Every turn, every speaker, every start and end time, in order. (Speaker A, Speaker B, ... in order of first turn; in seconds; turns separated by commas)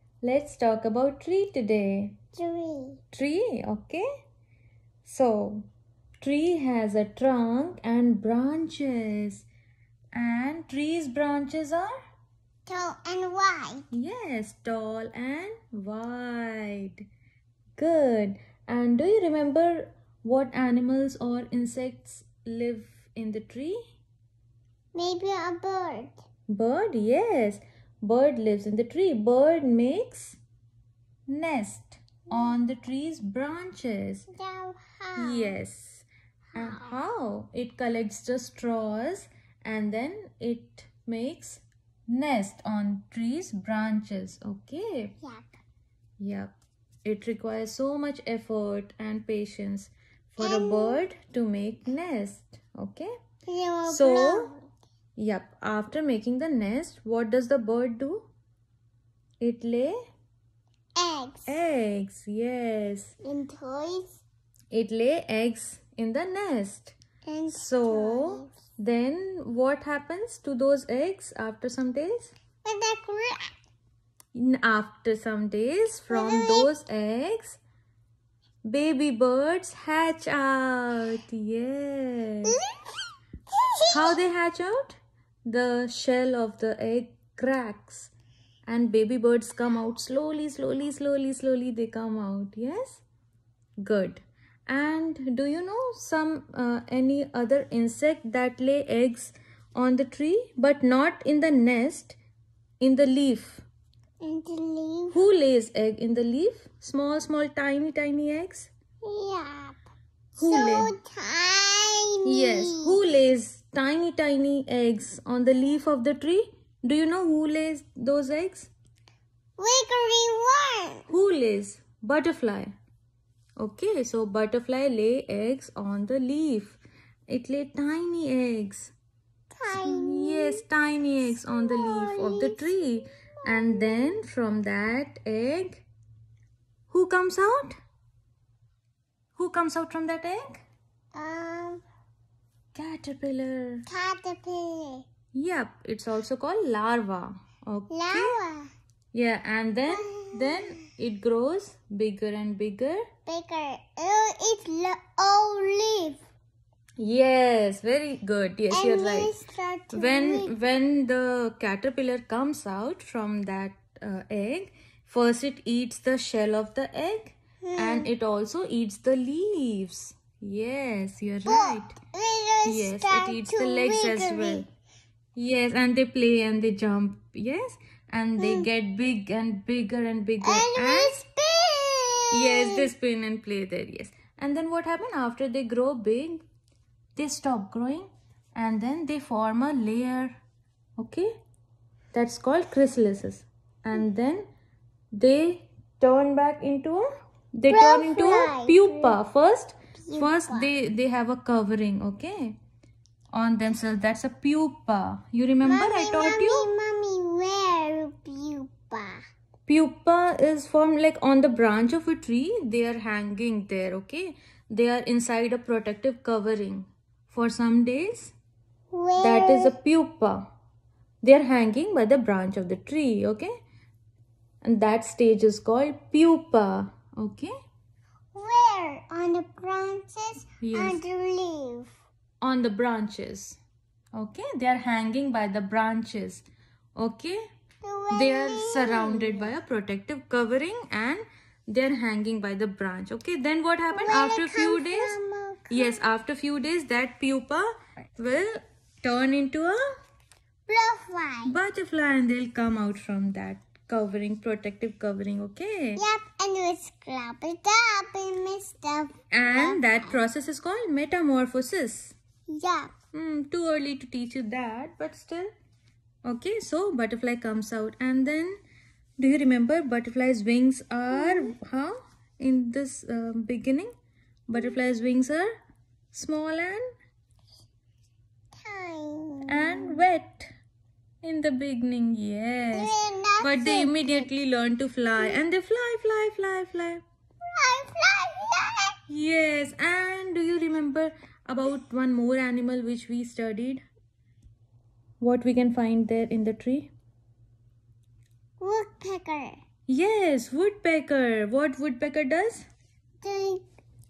Speaker A: 0.2-2.2, Speaker B: 2.4-3.0, Speaker A: 3.1-4.0, Speaker A: 5.0-5.7, Speaker A: 6.2-9.5, Speaker A: 10.1-11.9, Speaker B: 12.7-13.9, Speaker A: 13.9-17.1, Speaker A: 17.8-23.8, Speaker B: 24.9-26.2, Speaker A: 26.5-30.4, Speaker A: 31.3-34.3, Speaker B: 34.3-35.6, Speaker A: 35.2-45.2, Speaker B: 36.5-37.0, Speaker B: 45.2-45.5, Speaker A: 46.2-53.1, Speaker B: 50.4-51.0, Speaker B: 53.5-54.6, Speaker A: 53.9-54.5, Speaker A: 55.2-58.3, Speaker A: 59.4-60.0, Speaker B: 61.0-61.6, Speaker A: 61.5-63.1, Speaker B: 63.2-64.2, Speaker A: 64.7-67.0, Speaker B: 67.3-68.5, Speaker A: 67.5-72.3, Speaker B: 72.6-73.5, Speaker A: 74.3-77.6, Speaker B: 76.1-76.7, Speaker A: 78.7-82.6, Speaker B: 83.5-84.2, Speaker A: 83.9-88.1, Speaker A: 88.7-93.0, Speaker A: 93.8-102.2, Speaker A: 102.8-103.6, Speaker B: 104.2-105.2, Speaker A: 105.1-108.7, Speaker B: 109.0-109.8, Speaker A: 110.4-110.9, Speaker B: 110.4-113.0, Speaker A: 112.2-118.7, Speaker B: 119.6-121.1, Speaker A: 121.1-122.7, Speaker A: 123.6-126.8, Speaker A: 127.3-128.9, Speaker B: 129.6-130.6, Speaker A: 129.7-135.8, Speaker B: 131.5-132.7, Speaker B: 133.5-134.0, Speaker A: 136.9-137.8, Speaker A: 139.4-140.6, Speaker B: 141.2-141.8, Speaker A: 142.7-143.9, Speaker B: 143.9-145.1, Speaker A: 145.3-148.4, Speaker B: 147.9-148.7, Speaker A: 149.1-153.0, Speaker B: 149.9-150.6, Speaker B: 153.3-156.2, Speaker A: 157.0-159.3, Speaker B: 158.7-160.6, Speaker A: 159.9-172.0, Speaker B: 167.6-168.1, Speaker B: 171.5-174.7, Speaker A: 172.7-174.7, Speaker A: 175.4-181.2, Speaker B: 178.4-178.7, Speaker B: 180.4-182.9, Speaker A: 182.3-186.4, Speaker A: 187.2-190.4, Speaker A: 191.0-191.3, Speaker A: 192.1-194.5, Speaker A: 195.1-202.6, Speaker B: 197.7-199.2, Speaker B: 200.0-200.7, Speaker A: 203.3-206.7, Speaker B: 205.6-209.2, Speaker A: 209.7-218.3, Speaker B: 218.9-219.7, Speaker A: 219.2-220.4, Speaker A: 221.2-223.5, Speaker A: 224.6-227.5, Speaker B: 228.3-231.9, Speaker A: 230.6-231.0, Speaker A: 232.4-233.6, Speaker A: 234.1-236.4, Speaker A: 237.0-237.4, Speaker B: 237.8-239.5, Speaker A: 238.1-245.2, Speaker B: 243.9-246.0, Speaker A: 245.7-249.8, Speaker B: 250.7-251.6, Speaker A: 251.5-256.0, Speaker B: 256.0-260.2, Speaker A: 259.3-262.1, Speaker B: 262.5-262.9, Speaker A: 263.1-265.5, Speaker A: 266.2-268.6, Speaker A: 269.2-273.9, Speaker B: 271.1-271.5, Speaker A: 274.5-275.5, Speaker A: 276.1-276.9, Speaker B: 278.6-279.9, Speaker A: 279.5-280.5, Speaker A: 281.2-287.0, Speaker B: 282.7-284.3, Speaker B: 287.4-289.0, Speaker A: 289.1-293.8, Speaker A: 295.2-296.9, Speaker B: 298.6-299.6, Speaker A: 299.9-302.7, Speaker B: 303.2-303.6